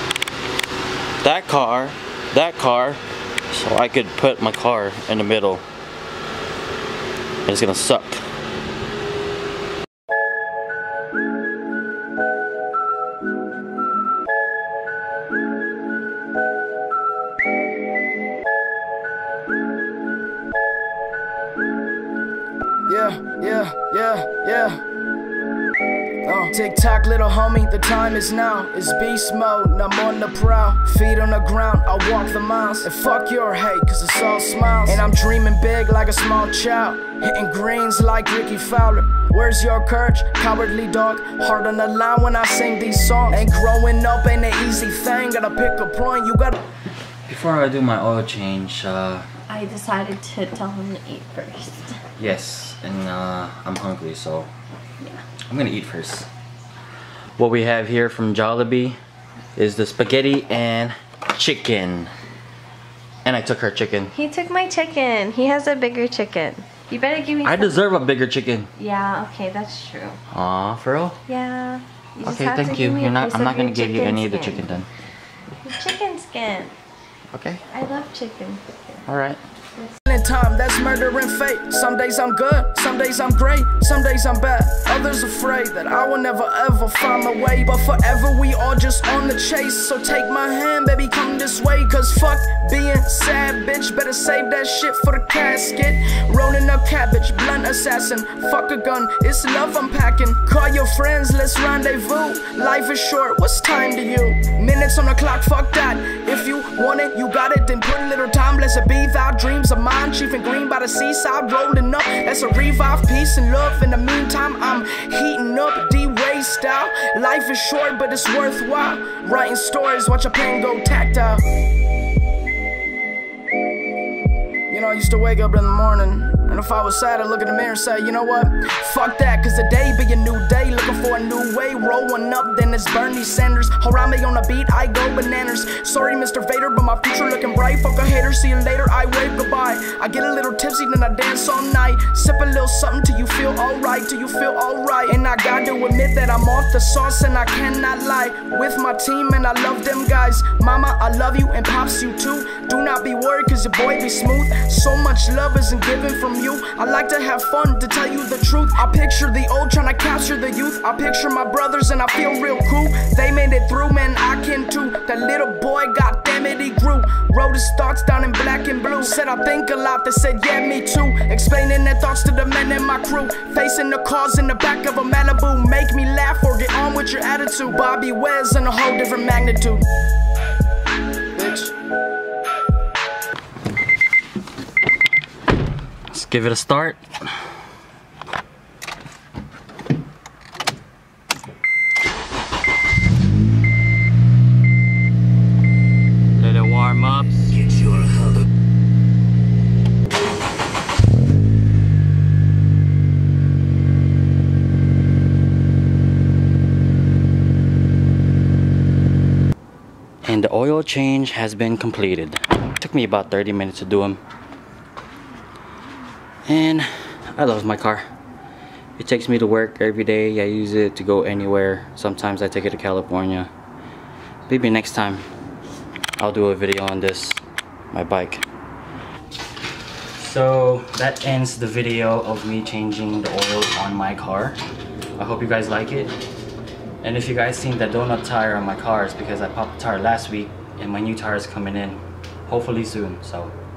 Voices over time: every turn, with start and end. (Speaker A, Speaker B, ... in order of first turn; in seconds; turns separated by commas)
Speaker A: 1.2-5.6, Speaker A: 7.5-8.2, Speaker B: 22.9-24.8, Speaker B: 26.2-46.6, Speaker A: 47.3-49.2, Speaker C: 49.5-52.0, Speaker A: 52.2-54.5, Speaker A: 55.5-56.3, Speaker A: 57.4-59.0, Speaker A: 59.5-62.1, Speaker A: 63.2-64.1, Speaker C: 64.1-67.8, Speaker A: 67.4-68.7, Speaker C: 68.8-70.2, Speaker A: 70.3-71.2, Speaker C: 71.3-74.7, Speaker A: 72.2-74.9, Speaker C: 75.6-76.7, Speaker A: 77.3-77.6, Speaker C: 77.7-79.0, Speaker A: 79.0-79.4, Speaker B: 80.1-121.4, Speaker B: 124.7-179.8, Speaker B: 181.3-181.7, Speaker A: 186.1-187.0, Speaker A: 196.3-198.1, Speaker A: 210.2-214.2, Speaker A: 216.5-218.1, Speaker A: 219.0-223.5, Speaker A: 224.5-225.2, Speaker A: 226.2-228.4, Speaker A: 230.2-234.6, Speaker A: 235.2-236.1, Speaker A: 237.0-243.5